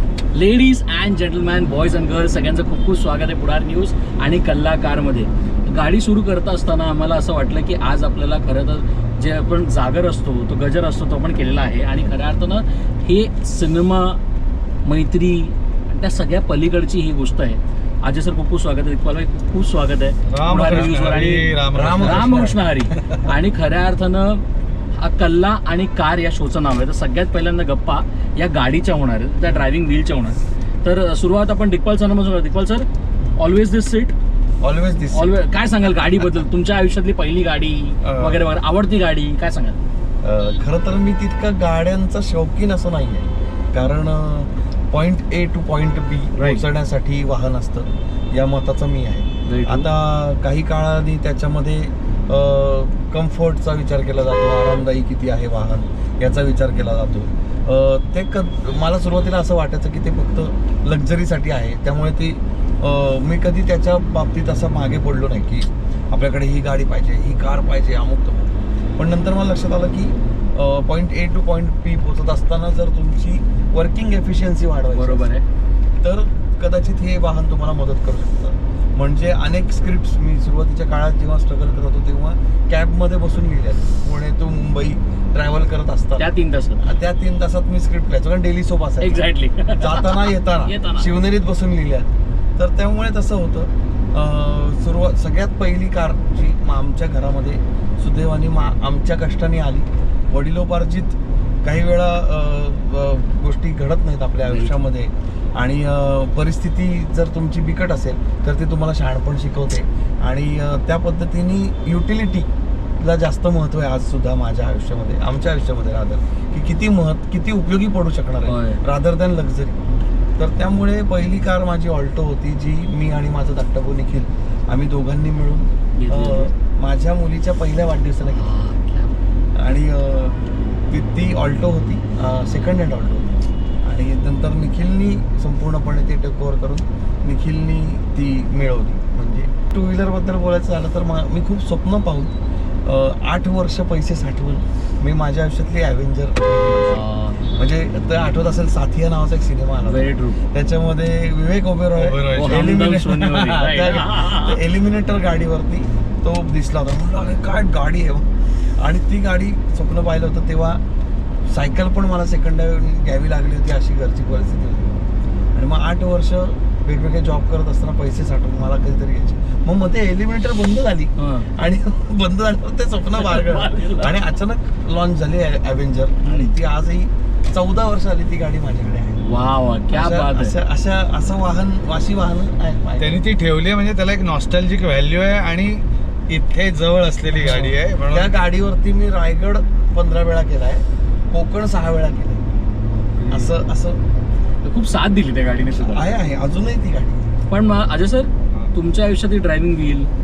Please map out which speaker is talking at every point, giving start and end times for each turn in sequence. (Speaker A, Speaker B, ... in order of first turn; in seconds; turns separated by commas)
Speaker A: 0.3-14.2, Speaker A: 14.8-24.4, Speaker B: 20.3-22.6, Speaker C: 20.6-21.0, Speaker C: 21.7-23.2, Speaker A: 25.0-34.1, Speaker C: 34.6-35.4, Speaker A: 35.1-39.8, Speaker C: 38.0-38.4, Speaker C: 40.2-75.3, Speaker A: 49.4-49.9, Speaker A: 74.9-75.4, Speaker C: 76.0-119.8, Speaker A: 86.2-86.8, Speaker A: 89.0-91.1, Speaker A: 104.5-104.8, Speaker A: 118.5-118.8, Speaker C: 120.4-128.5, Speaker A: 126.0-126.5, Speaker A: 128.2-129.2, Speaker C: 129.5-147.0, Speaker A: 146.8-147.6, Speaker C: 147.5-160.8, Speaker A: 149.8-150.4, Speaker B: 151.9-153.5, Speaker A: 152.3-154.6, Speaker C: 161.5-164.9, Speaker C: 165.5-179.2, Speaker A: 171.2-171.5, Speaker A: 173.1-174.2, Speaker A: 176.2-176.5, Speaker A: 179.2-180.6, Speaker C: 179.9-183.2, Speaker B: 183.0-188.3, Speaker C: 187.4-192.4, Speaker A: 193.2-193.6, Speaker C: 193.3-194.0, Speaker A: 194.6-196.1, Speaker C: 195.7-197.3, Speaker A: 197.5-200.1